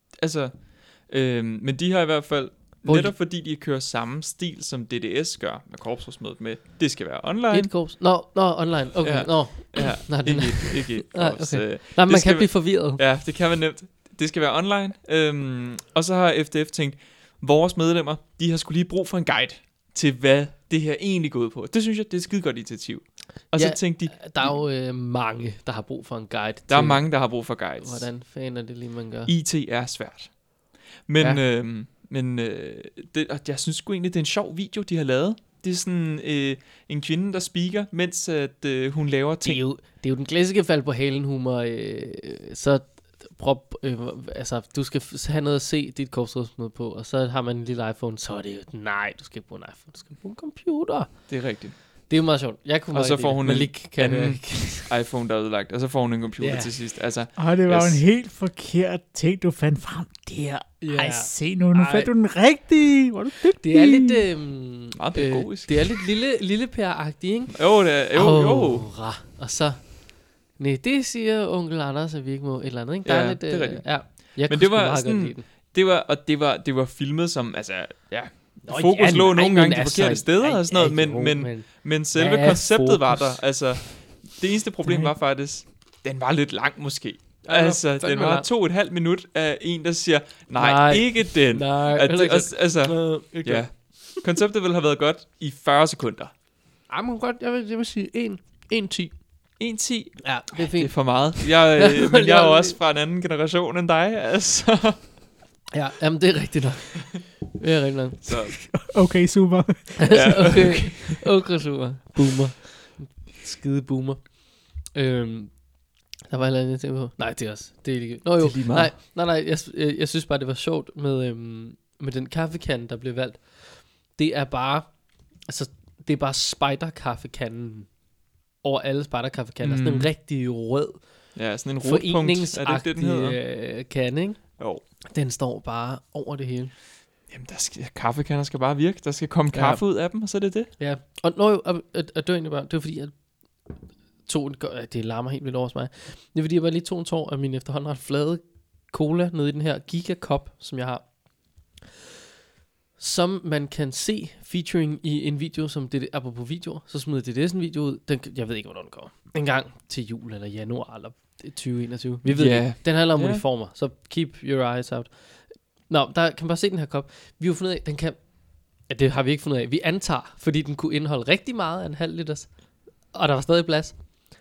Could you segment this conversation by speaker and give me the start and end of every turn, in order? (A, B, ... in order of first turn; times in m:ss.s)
0:00.2-0:07.8 A
0:02.8-0:03.2 B
0:07.5-0:13.0 B
0:09.0-0:24.6 A
0:23.6-0:29.3 B
0:26.7-0:28.1 A
0:29.3-0:30.4 A
0:31.1-0:39.6 A
0:39.4-0:51.3 B
0:51.3-0:51.8 A
0:52.1-0:54.9 B
0:52.9-0:58.0 A
0:56.4-0:56.7 B
0:57.4-1:04.2 C
1:00.8-1:02.1 B
1:03.6-1:10.0 B
1:05.0-1:06.0 A
1:07.5-1:08.9 A
1:10.6-1:15.5 B
1:13.1-1:36.3 A
1:18.6-1:23.4 B
1:27.4-1:28.5 B
1:30.6-1:34.2 B
1:36.9-1:39.2 B
1:39.6-1:45.1 A
1:40.2-1:42.8 B
1:45.7-1:48.6 B
1:48.2-1:48.7 A
1:48.8-1:50.5 C
1:50.0-1:54.3 B
1:50.1-1:51.3 A
1:54.8-1:55.6 B
1:56.3-2:04.9 B
1:58.4-1:58.9 A
2:05.5-2:07.9 B
2:08.6-2:11.0 B
2:09.6-2:10.1 A
2:11.4-2:13.4 A
2:11.8-2:16.7 B
2:17.3-2:20.7 A
2:19.5-2:19.8 B
2:20.8-2:23.1 B
2:24.3-2:31.1 B
2:33.0-2:48.2 B
2:42.3-2:43.4 A
2:48.8-2:52.5 B
2:53.1-2:54.0 B